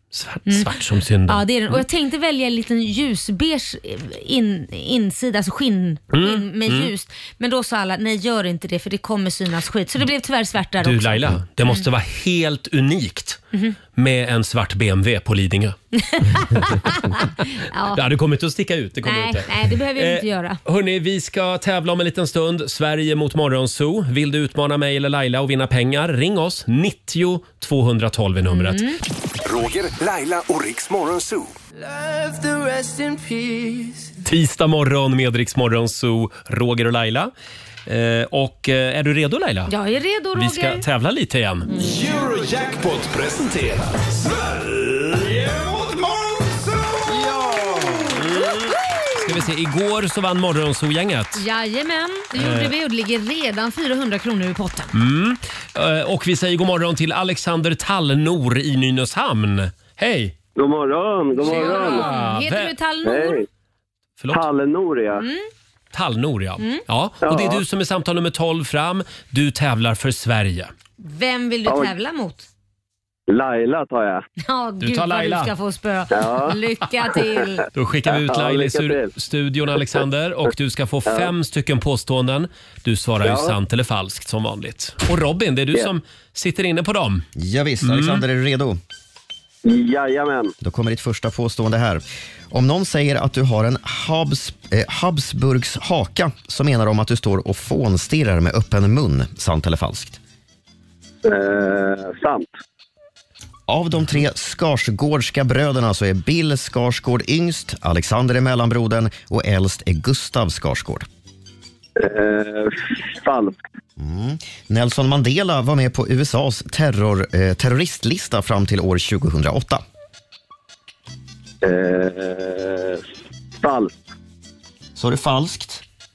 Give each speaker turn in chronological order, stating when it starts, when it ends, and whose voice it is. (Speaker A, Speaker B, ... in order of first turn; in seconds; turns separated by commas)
Speaker A: 0.1-1.8, Speaker B: 0.5-11.8, Speaker A: 6.1-6.9, Speaker A: 10.8-13.4, Speaker A: 13.9-15.8, Speaker B: 15.9-18.0, Speaker A: 17.9-28.9, Speaker B: 19.0-20.6, Speaker B: 28.5-29.0, Speaker C: 29.4-34.1, Speaker A: 34.2-37.3, Speaker A: 37.9-39.7, Speaker B: 39.7-40.8, Speaker A: 40.3-41.7, Speaker B: 41.7-42.0, Speaker C: 41.8-48.0, Speaker A: 48.1-51.4, Speaker B: 48.3-49.2, Speaker B: 51.3-54.9, Speaker A: 52.4-52.7, Speaker A: 54.9-60.3, Speaker D: 60.5-62.1, Speaker A: 61.4-62.7, Speaker B: 61.4-63.4, Speaker D: 63.0-63.5, Speaker A: 64.2-64.4, Speaker D: 64.3-65.3, Speaker B: 65.1-65.5, Speaker A: 65.9-70.7, Speaker D: 67.2-67.6, Speaker B: 71.0-72.5, Speaker D: 71.7-71.9, Speaker D: 73.3-74.2, Speaker B: 74.4-77.6, Speaker A: 74.8-75.5, Speaker D: 76.1-76.5, Speaker A: 77.7-87.3, Speaker D: 78.0-79.1, Speaker D: 79.7-80.0, Speaker D: 81.0-81.3, Speaker D: 83.2-83.6, Speaker E: 87.4-88.8, Speaker A: 87.8-88.2, Speaker D: 89.6-90.5, Speaker E: 90.6-100.2, Speaker D: 101.2-102.5, Speaker E: 103.7-111.0, Speaker D: 112.0-113.6, Speaker E: 114.0-119.8, Speaker D: 121.6-123.0, Speaker D: 123.6-124.0, Speaker E: 125.0-125.8